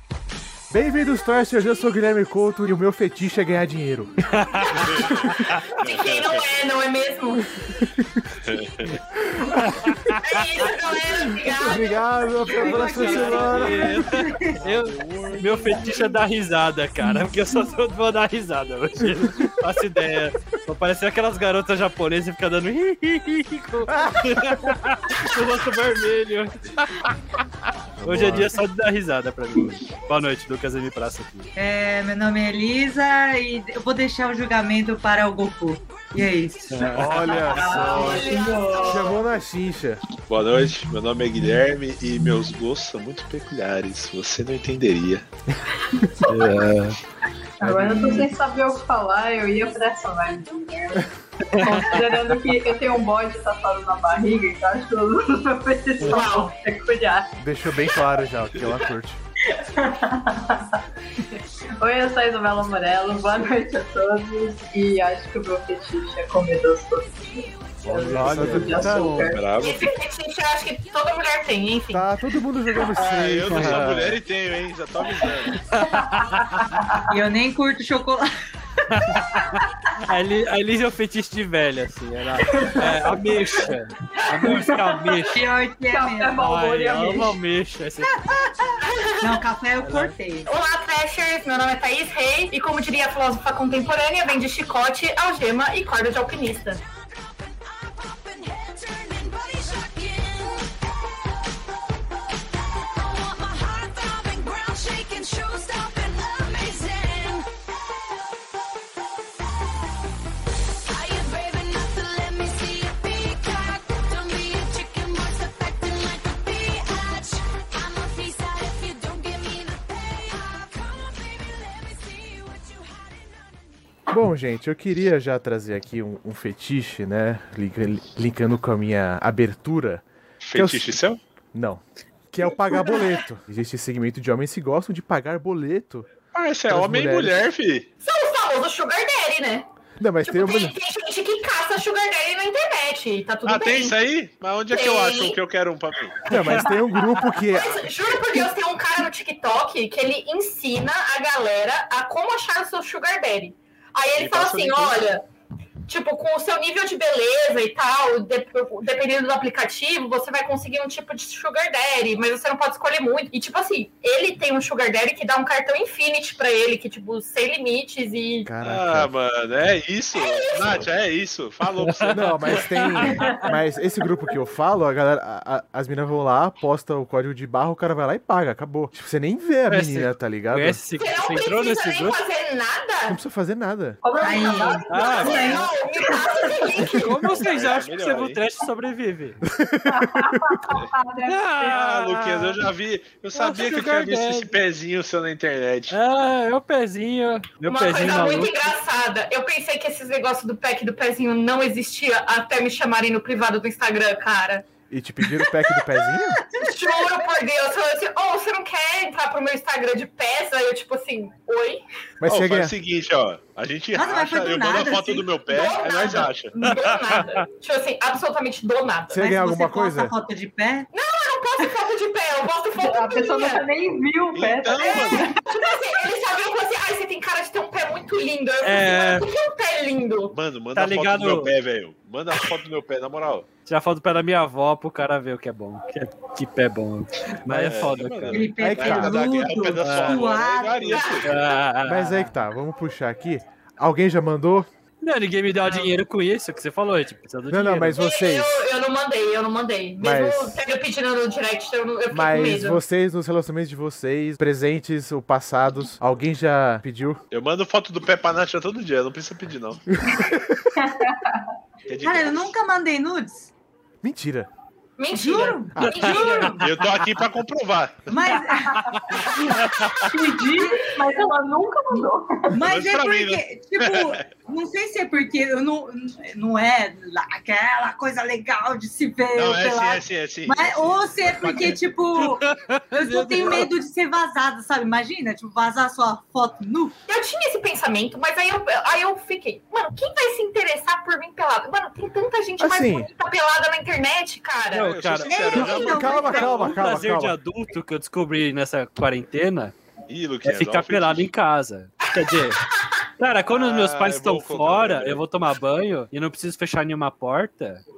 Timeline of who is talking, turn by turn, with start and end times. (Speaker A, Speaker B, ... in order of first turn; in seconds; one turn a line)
Speaker A: 0.7-4.2
Speaker B: 4.3-5.6
Speaker C: 4.8-5.3
Speaker A: 5.0-5.4
Speaker D: 5.8-7.5
Speaker C: 5.8-6.5
Speaker A: 7.8-10.2
Speaker C: 8.4-9.0
Speaker B: 9.6-10.2
Speaker D: 10.2-12.0
Speaker A: 11.1-14.1
Speaker E: 12.5-14.6
Speaker B: 12.6-27.1
Speaker C: 12.9-16.0
Speaker A: 19.1-19.5
Speaker A: 23.9-24.8
Speaker A: 28.0-28.6
Speaker B: 28.0-31.5
Speaker E: 31.6-36.9
Speaker F: 35.7-39.2
Speaker B: 36.7-38.0
Speaker A: 36.8-40.0
Speaker G: 37.5-39.2
Speaker C: 40.3-45.3
Speaker G: 45.9-46.5
Speaker B: 46.3-47.0
Speaker G: 47.6-57.3
Speaker A: 47.6-48.2
Speaker B: 51.4-52.1
Speaker D: 56.0-56.5
Speaker A: 57.4-59.2
Speaker G: 59.5-69.9
Speaker A: 67.9-69.4
Speaker B: 68.2-68.8
Speaker C: 68.2-69.9
Speaker D: 69.6-72.1
Speaker A: 71.9-74.0
Speaker C: 72.9-75.6
Speaker B: 73.5-74.2
Speaker B: 75.7-76.7
Speaker G: 75.9-77.0
Speaker E: 77.1-78.3
Speaker B: 78.9-85.4
Speaker G: 82.5-83.7
Speaker G: 84.3-85.4
Speaker E: 85.3-86.4
Speaker G: 85.9-87.4
Speaker B: 86.4-88.4
Speaker E: 88.1-88.7
Speaker D: 88.8-89.4
Speaker E: 89.2-90.5
Speaker B: 89.8-90.1
Speaker D: 90.5-96.8
Speaker F: 96.7-101.5
Speaker F: 102.5-110.0
Speaker F: 110.9-123.8
Speaker A: 124.1-131.0
Speaker C: 130.4-131.2
Speaker A: 131.5-136.1
Speaker C: 136.3-137.9
Speaker A: 136.7-137.4
Speaker D: 138.0-139.7
Speaker A: 140.0-140.8
Speaker D: 140.2-144.0
Speaker C: 143.4-146.2
Speaker D: 144.7-145.4
Speaker A: 146.3-148.5
Speaker D: 147.5-155.2
Speaker C: 154.2-155.0
Speaker D: 155.9-168.5
Speaker A: 168.5-169.1
Speaker C: 168.6-172.4
Speaker D: 170.2-170.8
Speaker B: 171.7-173.5
Speaker A: 172.1-180.8
Speaker G: 173.1-173.5
Speaker B: 179.7-182.2
Speaker D: 181.0-183.2
Speaker A: 183.1-184.0
Speaker G: 184.0-186.5
Speaker E: 184.2-185.7
Speaker B: 184.9-185.6
Speaker D: 184.9-187.1
Speaker B: 186.9-189.4
Speaker C: 187.2-188.4
Speaker A: 189.4-190.8
Speaker G: 189.9-191.8
Speaker B: 191.3-192.6
Speaker C: 191.7-196.0
Speaker B: 193.3-194.5
Speaker B: 195.9-198.7
Speaker D: 197.7-204.7
Speaker A: 204.9-206.4
Speaker E: 206.2-207.4
Speaker D: 206.6-211.8
Speaker A: 212.2-212.7
Speaker C: 212.3-216.6
Speaker E: 213.9-215.4
Speaker D: 215.5-219.2
Speaker B: 216.6-217.4
Speaker A: 219.1-220.2
Speaker E: 219.2-220.9
Speaker D: 220.9-223.7
Speaker G: 222.8-225.4
Speaker C: 224.3-225.3
Speaker D: 225.5-230.4
Speaker B: 228.6-229.3
Speaker C: 230.3-233.5
Speaker B: 230.8-231.5
Speaker B: 233.7-238.5
Speaker C: 237.5-241.4
Speaker E: 238.3-241.3
Speaker A: 238.6-239.5
Speaker B: 239.8-240.3
Speaker B: 241.2-242.3
Speaker A: 241.8-244.7
Speaker B: 245.0-248.0
Speaker A: 247.5-248.6
Speaker D: 247.9-252.8
Speaker A: 250.0-250.6
Speaker A: 252.1-257.2
Speaker C: 257.3-259.8
Speaker A: 259.9-260.8
Speaker G: 260.8-261.5
Speaker C: 261.9-262.6
Speaker E: 262.0-263.5
Speaker A: 264.0-264.5
Speaker D: 265.0-266.5
Speaker E: 265.1-267.0
Speaker A: 265.8-266.0
Speaker B: 265.8-267.0
Speaker C: 266.6-268.1
Speaker E: 268.1-268.8
Speaker G: 268.3-269.5
Speaker B: 268.7-270.1
Speaker D: 269.7-270.1
Speaker G: 270.1-272.6
Speaker E: 270.5-270.9
Speaker E: 272.5-287.0
Speaker C: 272.7-274.3
Speaker C: 279.4-281.8
Speaker B: 282.2-283.7
Speaker D: 287.1-294.9
Speaker A: 292.6-293.1
Speaker B: 294.7-299.8
Speaker C: 294.8-296.8
Speaker E: 295.3-296.6
Speaker A: 295.7-297.4
Speaker C: 300.1-301.3
Speaker B: 300.4-302.6
Speaker D: 302.1-303.0
Speaker B: 303.2-307.8
Speaker C: 303.5-305.2